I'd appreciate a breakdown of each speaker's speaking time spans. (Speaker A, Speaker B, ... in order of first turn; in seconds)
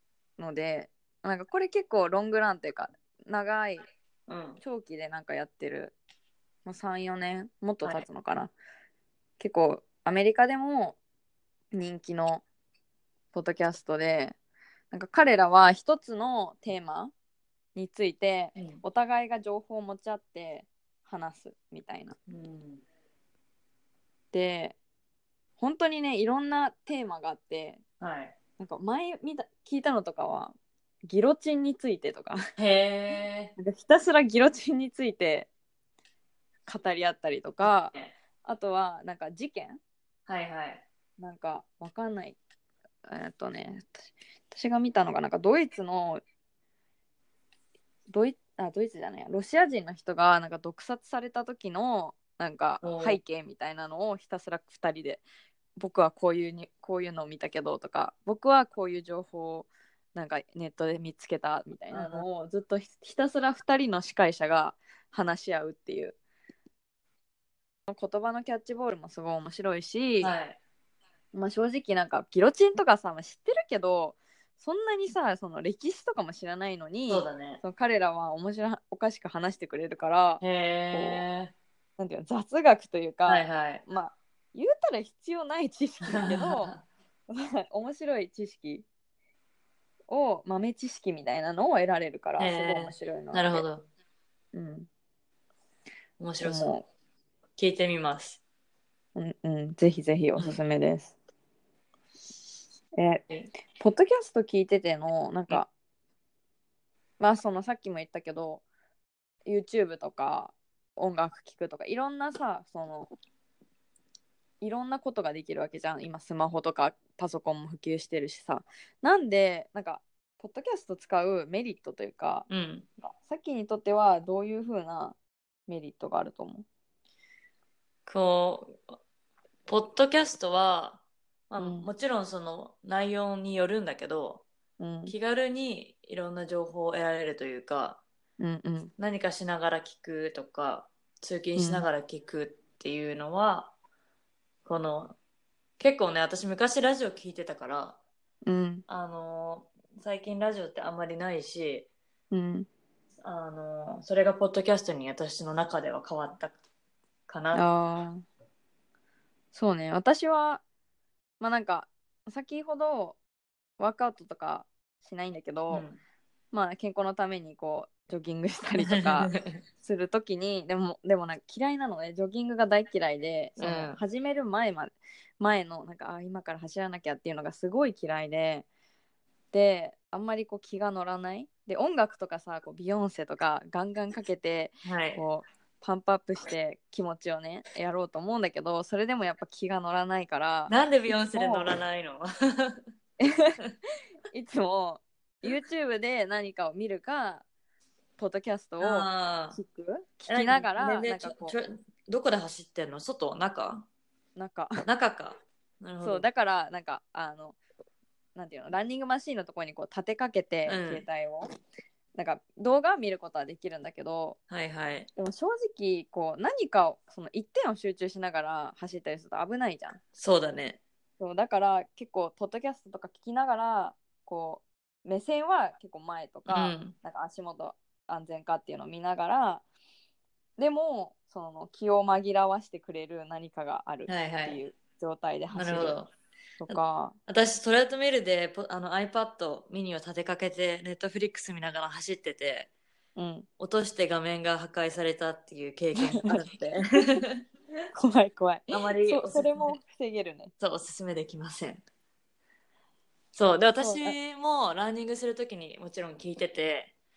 Speaker A: 0.4-3.9, 4.6-6.0, 6.7-8.5, 9.4-11.0, 11.7-12.4, 13.3-14.4, 14.9-17.1, 17.8-22.2, 24.3-24.8, 25.6-27.8, 28.6-32.4, 33.6-35.5, 36.7-39.8, 41.2-42.4, 43.1-46.2, 48.1-55.2, 55.8-66.2, 67.9-70.3, 71.3-81.2, 82.0-86.8, 87.3-88.9, 90.1-93.7, 94.5-94.9, 96.4-96.9, 99.2-101.2, 102.9-103.2, 103.8-105.7, 107.2-108.6, 109.5-113.1, 114.6-122.5, 123.0-126.7, 131.6-131.9, 134.8-135.2, 138.4-138.9, 141.6-141.9, 148.4-148.8, 152.3-152.7, 157.5-158.2, 159.5-160.6, 161.4-163.2, 163.8-165.8, 166.5-178.7, 179.5-191.7, 193.2-193.6, 194.3-197.5, 198.2-201.5, 204.4-204.7, 206.0-207.6, 208.3-211.5, 212.2-214.4, 215.2-220.0, 221.2-229.6, 230.6-236.0, 236.6-237.2, 243.2-243.5, 246.0-247.2, 247.9-250.5, 253.8-254.2
Speaker B: 4.3-4.6, 18.6-18.8, 22.3-22.8, 28.0-28.3, 32.6-33.5, 37.6-38.1, 40.3-40.8, 52.8-53.2, 61.9-62.2, 70.2-70.6, 77.1-77.6, 80.4-81.5, 83.3-83.8, 86.1-86.8, 92.4-93.8, 96.2-96.7, 97.6-98.4, 122.5-122.9, 128.1-129.0, 129.7-134.4, 135.1-138.0, 139.0-143.7, 144.7-145.2, 145.8-148.0, 148.9-151.9, 153.2-156.6, 157.3-157.7, 165.7-166.0, 168.8-169.6, 173.6-174.0, 184.8-185.2, 190.7-192.8, 198.8-199.6, 200.3-203.9, 204.9-206.2, 210.7-211.1, 214.5-215.1, 220.2-220.8, 226.5-226.9, 234.1-234.6, 235.5-236.1, 236.7-242.7, 243.6-247.4, 248.7-249.7, 250.6-251.8, 253.3-256.9